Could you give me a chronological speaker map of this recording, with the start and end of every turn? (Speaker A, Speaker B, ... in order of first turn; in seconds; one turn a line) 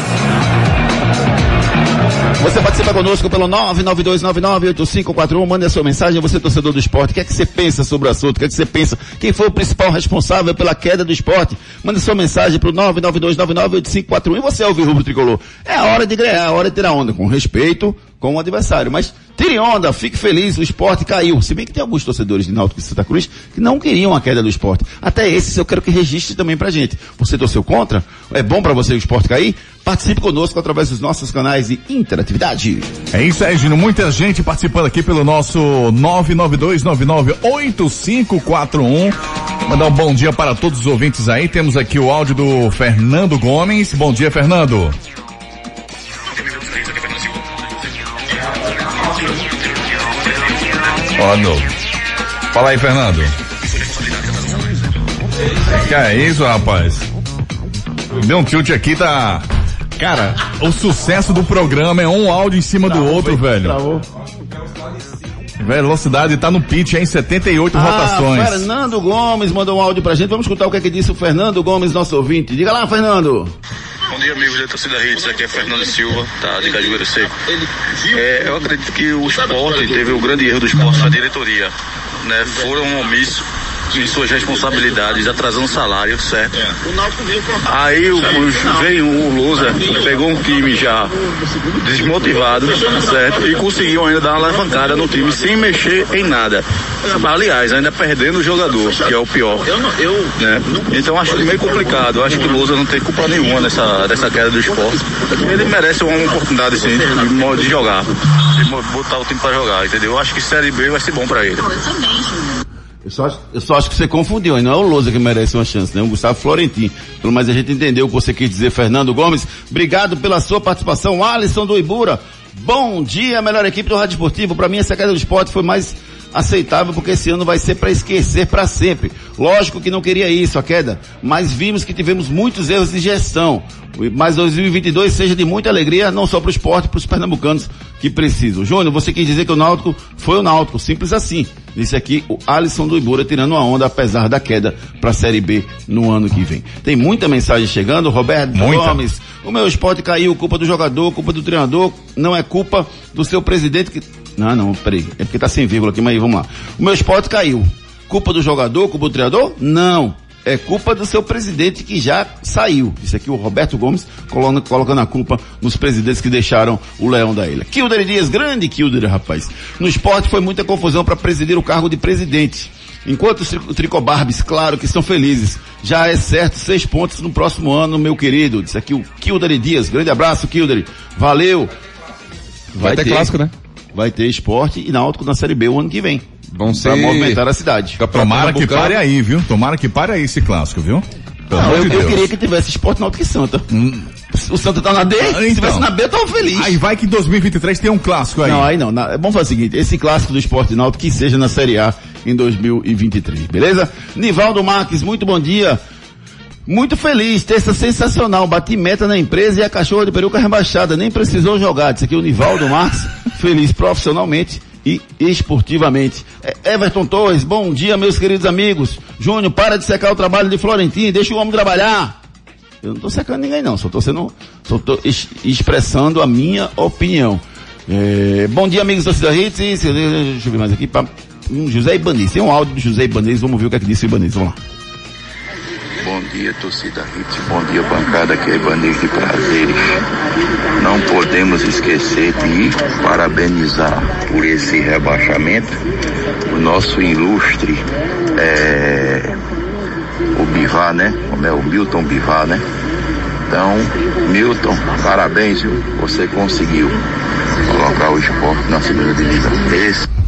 Speaker A: 2.4-32.9
Speaker B: 33.1-45.0
Speaker B: 51.2-51.7
Speaker B: 52.5-53.3
Speaker B: 55.8-57.0
Speaker B: 58.1-59.4
Speaker B: 60.0-63.8
Speaker A: 63.0-64.0
Speaker B: 65.6-68.7
Speaker A: 67.7-73.5
Speaker C: 74.1-77.3
Speaker C: 78.0-86.7
Speaker A: 86.8-87.6
Speaker C: 87.7-91.1
Speaker C: 91.8-111.7
Speaker A: 113.0-181.7
Speaker B: 148.5-149.0
Speaker A: 182.7-183.3
Speaker D: 182.8-183.5
Speaker A: 183.9-188.0
Speaker D: 186.5-187.4
Speaker D: 188.0-189.0
Speaker B: 188.1-192.2
Speaker A: 191.5-193.7
Speaker D: 191.6-192.0
Speaker B: 193.7-194.1
Speaker A: 194.3-196.8
Speaker B: 195.1-195.9
Speaker B: 196.4-198.7
Speaker A: 198.4-205.8
Speaker A: 206.7-222.2
Speaker A: 222.8-234.6
Speaker E: 236.0-239.9
Speaker E: 240.8-245.8
Speaker E: 246.5-249.4
Speaker E: 250.3-252.6
Speaker E: 253.5-257.0
Speaker E: 257.6-260.1